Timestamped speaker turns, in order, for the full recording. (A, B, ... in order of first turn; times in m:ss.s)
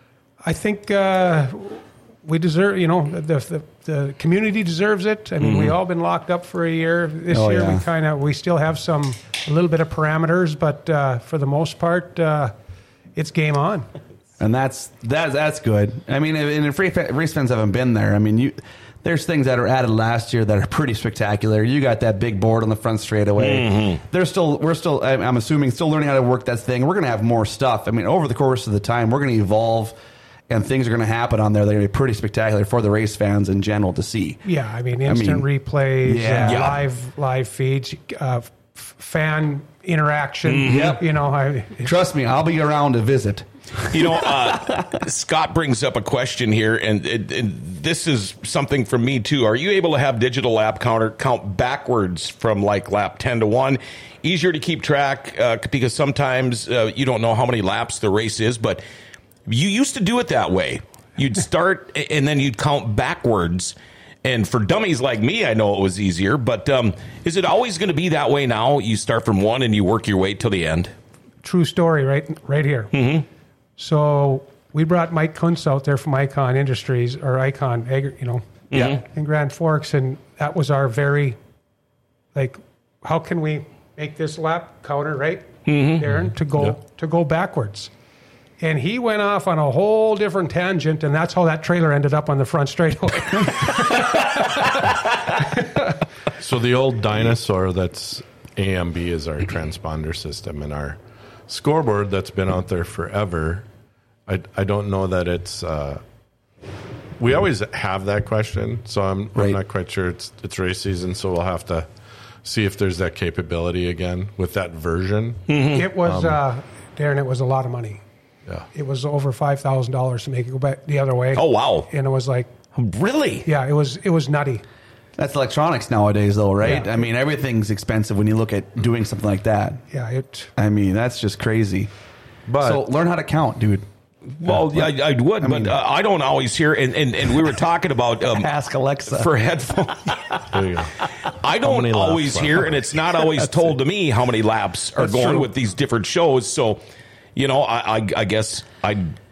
0:00.4-0:12.5 A
0:05.4-0:05.7 B
0:07.3-0:07.8 C
0:13.2-0:13.9 A
0:14.4-0:30.0 C
0:23.4-0:24.0 B
0:30.5-0:34.4 C
0:34.4-0:42.0 A
0:35.1-0:35.5 C
0:36.0-0:36.7 C
0:36.4-0:36.8 B
0:40.5-0:41.0 B
0:40.7-0:41.0 C
0:41.8-0:44.8 C
0:43.9-0:58.8 B
0:59.5-1:10.9 B
1:11.4-1:12.9 A
1:12.9-1:13.3 B
1:13.8-1:21.4 A
1:18.7-1:19.0 B
1:22.3-1:27.9 A
1:25.7-1:26.0 B
1:28.6-1:35.8 A
1:36.4-1:43.7 D
1:44.3-1:46.0 D
1:47.2-1:51.9 D
1:52.4-1:56.4 D
1:55.5-1:55.9 B
1:55.7-1:58.0 A
1:58.7-2:02.5 A
2:01.4-2:01.9 B
2:02.8-2:03.5 B
2:03.4-2:04.6 A
2:05.2-2:09.8 C
2:09.9-2:10.5 A
2:10.6-2:11.9 C
2:12.5-2:12.8 D
2:12.6-2:13.8 C
2:14.4-2:18.5 B
2:14.4-2:15.8 C
2:18.3-2:19.3 C
2:19.1-2:20.5 B
2:20.5-2:21.0 D
2:21.3-2:26.8 B
2:21.6-2:22.9 D
2:25.0-2:25.5 C
2:27.4-2:29.1 B